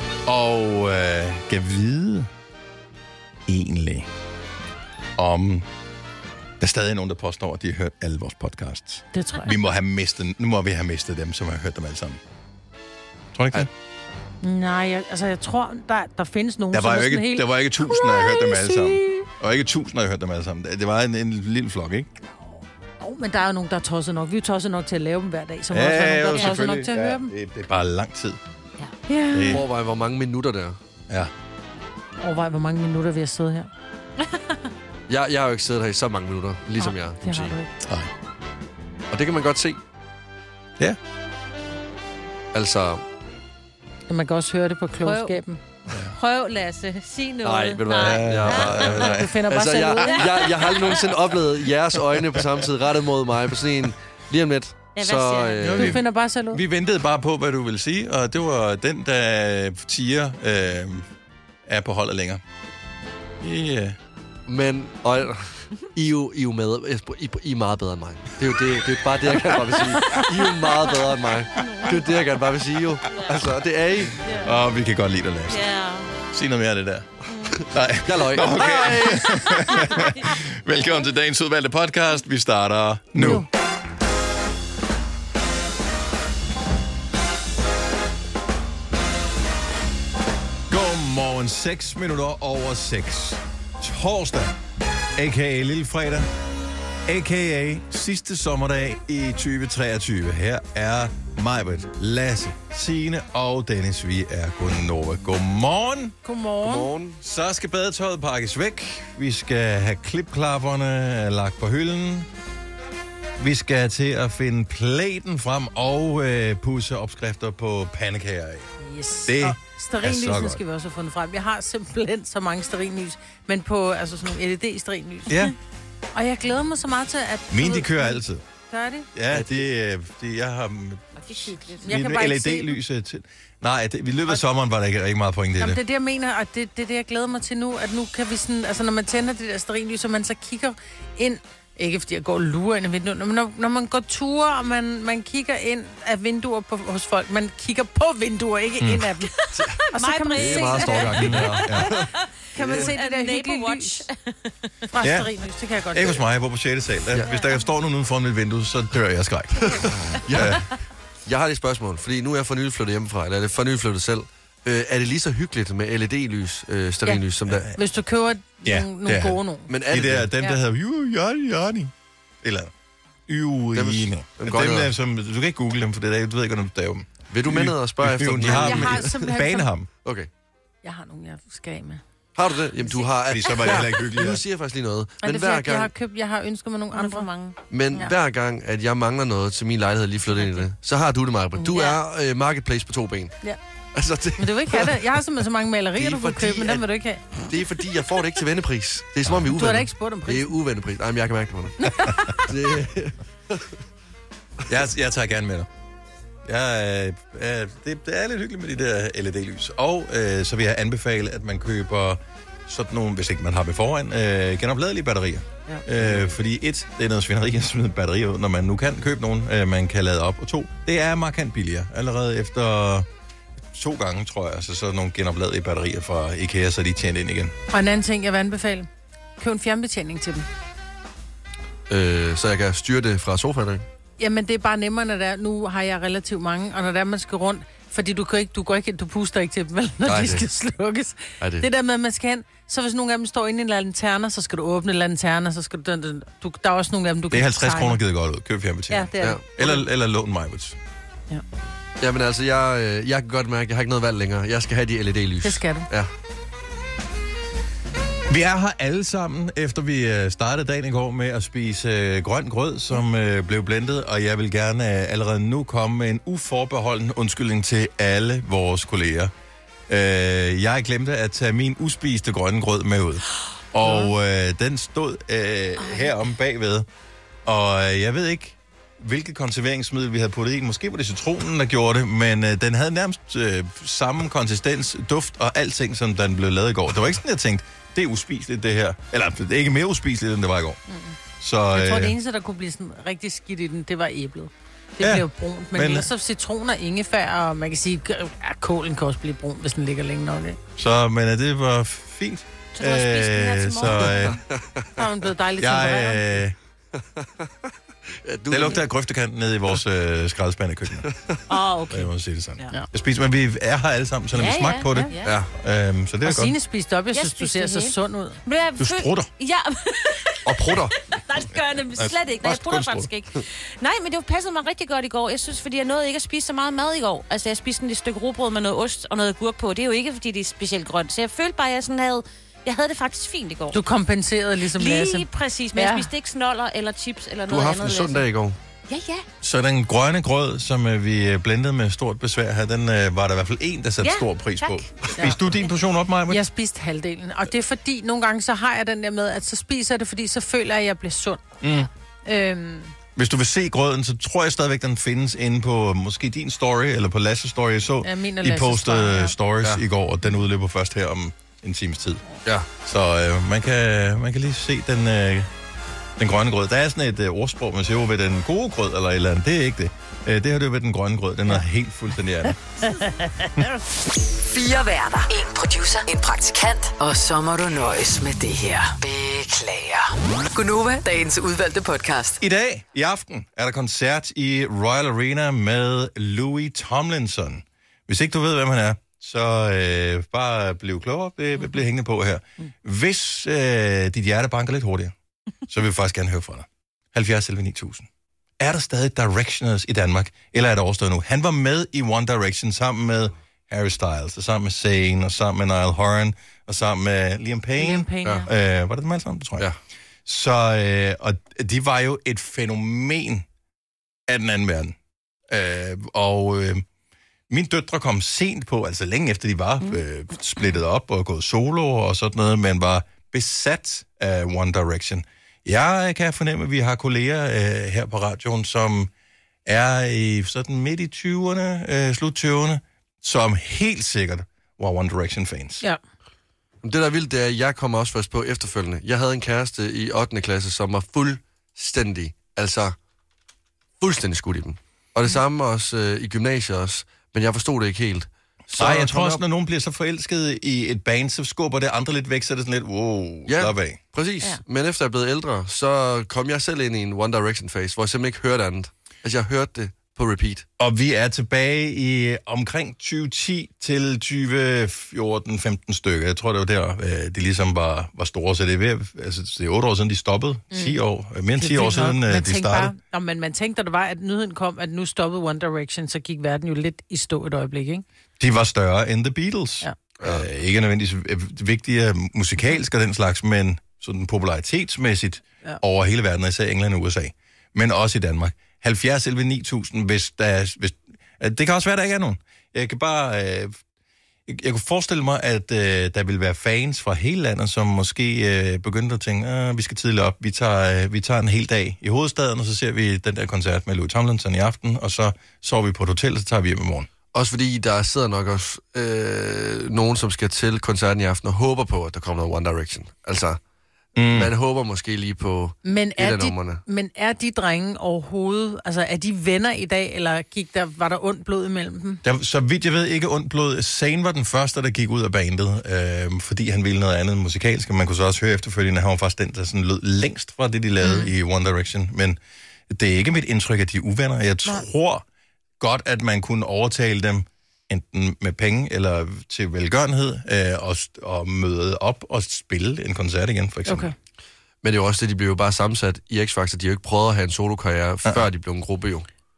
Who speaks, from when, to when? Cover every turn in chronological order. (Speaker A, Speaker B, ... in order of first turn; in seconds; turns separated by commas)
Speaker A: 0.2-2.3, Speaker A: 3.5-4.1, Speaker A: 5.2-5.7, Speaker A: 6.6-12.2, Speaker B: 9.1-9.6, Speaker A: 13.3-13.7, Speaker B: 14.4-19.3, Speaker A: 16.7-22.1, Speaker B: 22.2-27.3, Speaker A: 25.7-28.4, Speaker B: 29.1-29.6, Speaker A: 29.3-29.6, Speaker C: 29.5-30.8, Speaker B: 32.2-33.7, Speaker C: 35.1-37.5, Speaker B: 36.8-37.7, Speaker A: 37.8-38.1, Speaker C: 39.1-39.8, Speaker C: 42.5-43.0, Speaker B: 44.1-45.6, Speaker D: 45.0-45.4, Speaker A: 45.9-46.1, Speaker D: 46.1-49.1, Speaker C: 47.4-56.0, Speaker A: 47.9-49.3, Speaker B: 49.0-50.3, Speaker D: 50.2-51.0, Speaker D: 54.9-55.9, Speaker A: 55.6-56.0, Speaker B: 55.7-56.6, Speaker A: 56.5-61.1, Speaker A: 61.6-62.4, Speaker A: 63.4-64.0, Speaker C: 64.5-74.2, Speaker D: 71.6-72.0, Speaker A: 74.4-75.6, Speaker D: 75.5-76.1, Speaker A: 76.3-77.2, Speaker D: 77.3-77.6, Speaker A: 77.7-83.5, Speaker C: 78.0-79.2, Speaker D: 79.8-80.3, Speaker B: 83.2-83.5, Speaker A: 90.7-94.6, Speaker A: 95.2-96.3, Speaker A: 97.1-106.2, Speaker B: 106.2-106.9, Speaker C: 106.6-107.2, Speaker A: 107.2-112.3, Speaker A: 113.4-118.7, Speaker B: 118.8-125.4, Speaker A: 119.2-120.6, Speaker A: 125.3-125.5, Speaker B: 126.1-129.1, Speaker A: 127.5-128.4, Speaker A: 129.1-135.8, Speaker C: 129.3-129.6, Speaker D: 131.2-131.9, Speaker B: 131.8-132.8, Speaker B: 135.6-149.3, Speaker A: 148.8-149.1, Speaker D: 149.4-151.9, Speaker C: 149.5-149.8, Speaker B: 149.9-151.7, Speaker C: 150.3-152.9, Speaker A: 151.0-151.9, Speaker B: 152.5-154.1, Speaker D: 152.6-154.7, Speaker B: 154.9-156.2, Speaker A: 155.0-155.3, Speaker A: 155.9-160.6, Speaker D: 157.2-157.7, Speaker C: 159.7-160.7, Speaker C: 161.2-167.7, Speaker A: 167.5-167.8, Speaker B: 167.8-169.7, Speaker A: 168.6-172.7, Speaker C: 169.7-170.3, Speaker A: 173.3-179.9, Speaker C: 173.7-174.9, Speaker C: 177.3-179.2, Speaker B: 178.4-179.7, Speaker C: 180.0-180.3, Speaker B: 180.8-182.0, Speaker C: 182.3-185.9, Speaker A: 183.2-184.4, Speaker B: 185.2-187.3, Speaker D: 186.9-187.6, Speaker C: 187.7-193.3, Speaker B: 191.6-191.9, Speaker C: 193.9-195.0, Speaker B: 194.4-197.2, Speaker C: 195.9-196.8, Speaker C: 197.4-203.8, Speaker B: 199.5-200.5, Speaker B: 201.8-202.3, Speaker A: 204.7-205.7, Speaker A: 206.4-223.1, Speaker A: 223.7-227.5, Speaker B: 227.7-228.9, Speaker B: 229.4-230.5, Speaker C: 231.9-233.8, Speaker B: 234.2-248.0, Speaker C: 240.0-240.4, Speaker C: 241.4-241.7, Speaker A: 247.3-250.8, Speaker B: 248.9-249.8, Speaker C: 252.0-256.1, Speaker B: 255.4-255.9, Speaker A: 258.3-269.3, Speaker A: 269.9-276.9, Speaker A: 277.4-290.8, Speaker B: 290.9-291.1, Speaker A: 291.4-292.1, Speaker B: 291.7-300.6, Speaker A: 295.0-296.1, Speaker A: 300.8-304.4, Speaker D: 302.7-304.3, Speaker C: 304.3-304.9, Speaker B: 304.9-306.4, Speaker A: 305.6-306.6, Speaker C: 307.0-308.8, Speaker A: 308.5-311.1, Speaker C: 311.0-311.4, Speaker D: 311.5-312.1, Speaker A: 311.9-316.5, Speaker D: 314.3-315.3, Speaker C: 315.2-315.5, Speaker B: 316.2-318.4, Speaker D: 317.1-317.9, Speaker D: 318.4-320.4, Speaker A: 318.8-319.3, Speaker C: 320.4-320.9, Speaker D: 321.1-333.8, Speaker A: 321.9-323.1, Speaker B: 333.7-336.1, Speaker D: 334.7-338.2, Speaker C: 337.5-338.6, Speaker D: 338.9-339.2, Speaker A: 339.4-346.4, Speaker D: 344.0-344.9, Speaker B: 346.3-351.6, Speaker A: 351.6-351.9, Speaker B: 352.2-352.9, Speaker A: 353.1-362.2, Speaker B: 358.0-359.4, Speaker A: 362.8-365.5, Speaker A: 366.2-372.6, Speaker B: 372.9-373.6, Speaker E: 374.5-382.4, Speaker A: 382.4-395.1, Speaker A: 395.7-398.1, Speaker A: 398.6-409.6, Speaker B: 407.8-408.5, Speaker A: 410.2-413.4, Speaker A: 414.3-414.9, Speaker A: 415.5-416.8, Speaker A: 417.5-429.1, Speaker A: 429.6-435.8, Speaker C: 436.8-442.9, Speaker C: 444.0-449.4, Speaker A: 448.8-454.0, Speaker C: 453.5-460.6, Speaker A: 460.8-472.9, Speaker B: 470.7-471.0, Speaker B: 471.6-478.0, Speaker A: 478.4-493.8, Speaker A: 494.5-507.1, Speaker C: 507.3-513.6, Speaker A: 514.1-514.5, Speaker C: 514.3-516.8, Speaker B: 515.8-522.2, Speaker A: 522.2-532.4, Speaker A: 532.9-535.2, Speaker A: 535.8-544.1, Speaker B: 543.9-544.1, Speaker C: 544.8-549.3